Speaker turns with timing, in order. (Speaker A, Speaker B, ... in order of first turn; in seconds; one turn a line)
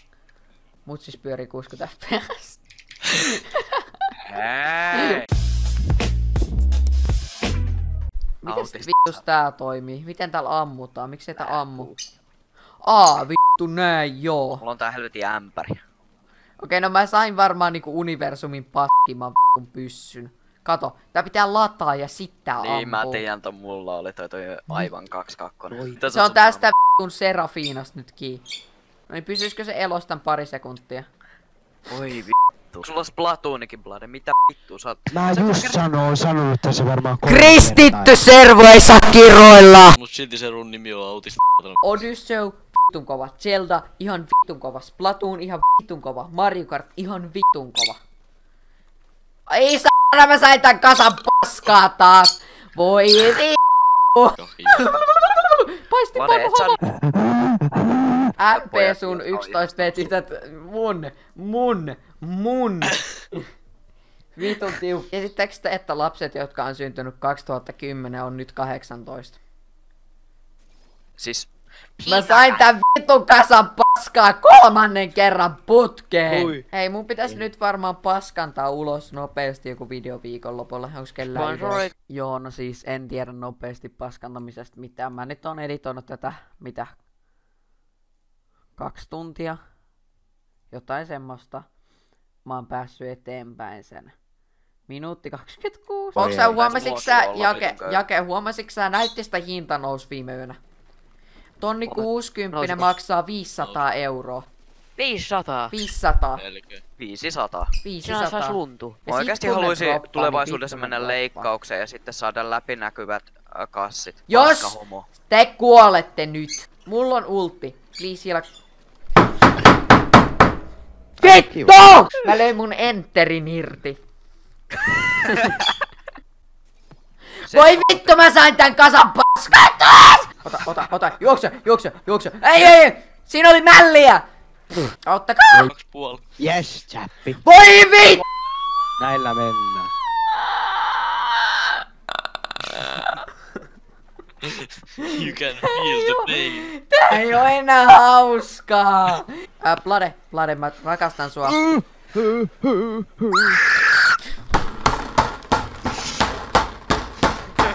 Speaker A: 0.8-3.9
Speaker B: 4.3-5.3
Speaker A: 4.9-5.3
Speaker A: 8.4-11.9
Speaker B: 8.5-9.3
Speaker B: 11.5-11.9
Speaker A: 12.8-14.6
Speaker B: 14.6-15.8
Speaker A: 16.6-23.3
Speaker B: 22.6-26.7
Speaker C: 25.7-26.0
Speaker A: 26.1-28.4
Speaker A: 29.1-31.1
Speaker B: 31.9-35.8
Speaker C: 35.1-38.2
Speaker A: 37.2-40.0
Speaker D: 40.0-41.8
Speaker A: 41.8-48.0
Speaker A: 49.5-56.8
Speaker D: 54.4-54.9
Speaker B: 56.1-56.8
Speaker C: 57.1-57.6
Speaker A: 58.4-63.4
Speaker B: 58.5-60.1
Speaker A: 64.3-69.4
Speaker B: 71.2-71.5
Speaker B: 72.0-72.7
Speaker A: 72.0-87.0
Speaker E: 81.3-81.9
Speaker A: 88.8-89.6
Speaker A: 90.7-91.7
Speaker A: 92.5-94.1
Speaker A: 94.9-100.6
Speaker C: 96.2-96.6
Speaker B: 96.3-98.0
Speaker A: 101.6-104.5
Speaker E: 101.9-102.9
Speaker E: 105.0-105.8
Speaker A: 105.7-106.4
Speaker D: 106.4-106.8
Speaker B: 107.0-107.8
Speaker A: 107.8-111.5
Speaker E: 108.0-109.0
Speaker B: 109.1-115.1
Speaker A: 114.3-118.5
Speaker A: 121.2-124.0
Speaker C: 121.2-121.8
Speaker A: 125.2-125.5
Speaker B: 125.4-125.7
Speaker A: 127.4-134.2
Speaker B: 127.5-128.1
Speaker A: 135.0-135.7
Speaker D: 135.6-136.2
Speaker C: 136.4-137.4
Speaker A: 137.4-138.2
Speaker C: 139.0-139.9
Speaker A: 140.4-141.8
Speaker D: 144.4-146.7
Speaker A: 145.0-151.6
Speaker C: 151.7-153.3